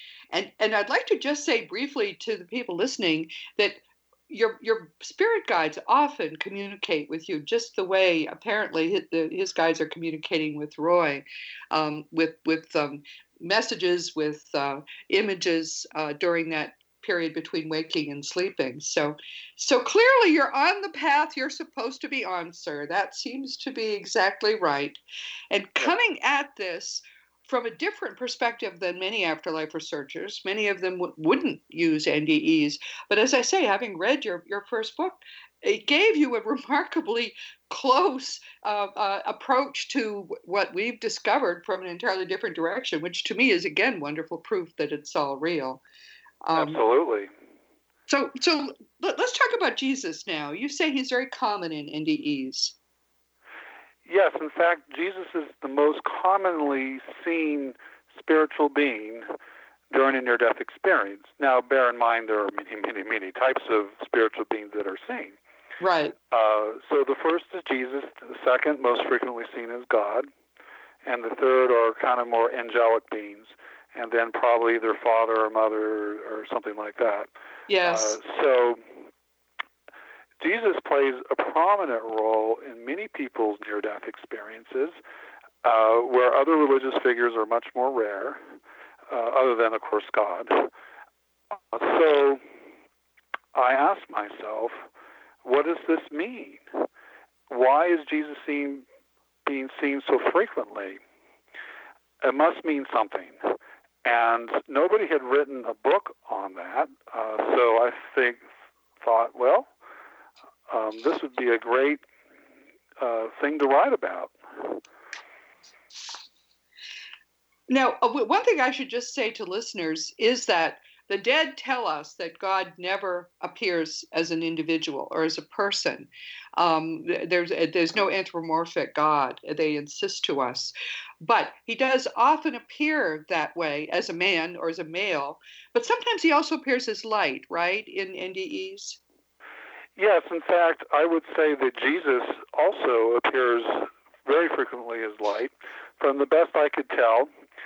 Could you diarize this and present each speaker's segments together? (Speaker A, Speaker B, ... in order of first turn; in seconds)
Speaker A: 0.3-45.8, 46.4-46.8, 48.1-52.8, 65.8-66.2, 77.7-78.2, 117.7-139.0
Speaker B: 46.5-47.3, 54.1-59.3, 59.9-65.4, 66.3-70.3, 71.0-77.3, 77.8-78.9, 80.4-85.0, 85.6-88.4, 89.1-90.7, 91.7-92.4, 93.5-94.8, 95.4-96.6, 97.5-98.8, 99.5-101.0, 102.2-108.4, 109.0-109.7, 110.7-112.0, 113.0-114.8, 140.0-147.3